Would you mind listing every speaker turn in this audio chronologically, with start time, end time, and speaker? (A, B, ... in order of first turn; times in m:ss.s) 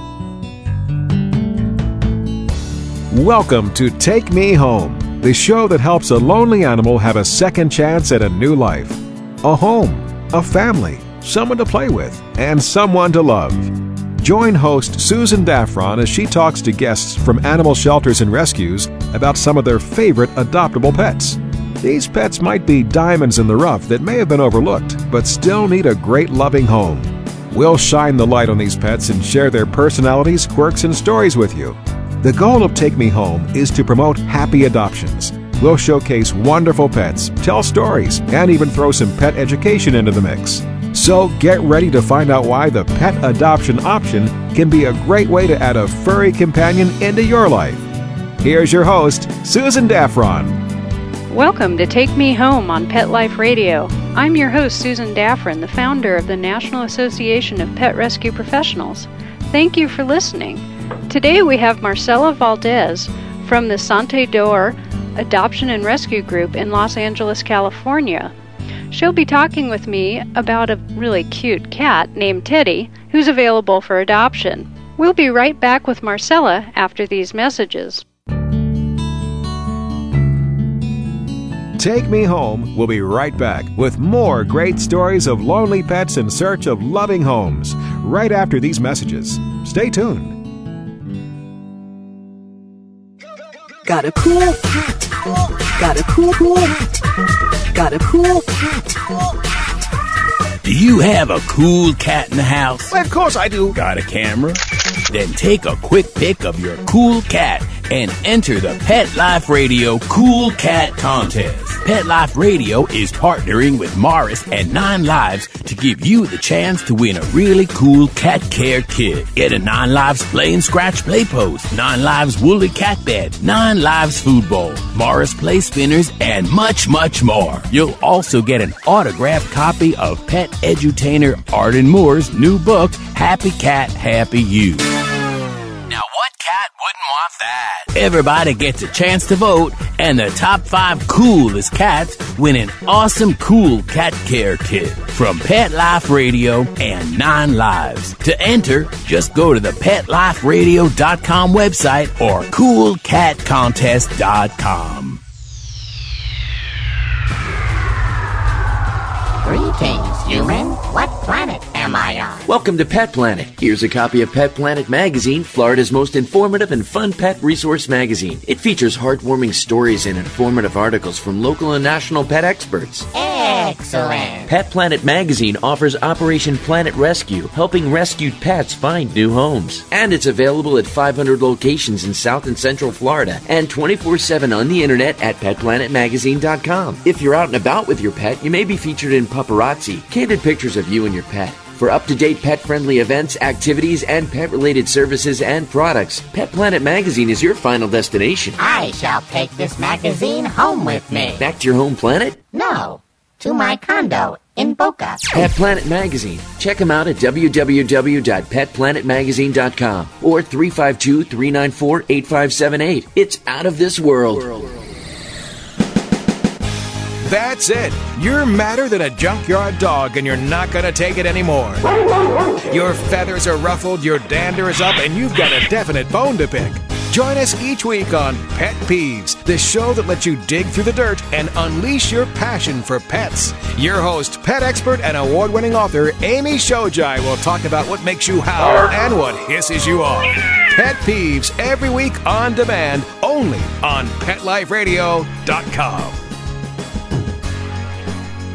0:03.1-0:47.9 A
0:48.4-0:50.6 A
0:51.3-1:08.3 B
1:08.9-1:18.0 B
1:21.8-1:30.4 A
1:33.8-1:35.0 C
1:35.8-1:36.8 C
1:37.7-1:39.0 C
1:40.6-1:42.9 D
1:42.9-1:43.8 A
1:43.7-2:14.9 D
2:15.9-2:35.2 D
2:39.4-2:42.4 E
2:42.4-2:53.1 F
2:53.1-2:54.5 E
2:54.4-3:18.6 F
3:18.6-3:21.4 E
3:21.4-3:22.4 F
3:22.5-3:25.5 E
3:25.3-3:34.7 F
3:37.2-3:41.8 A
3:42.7-4:06.2 A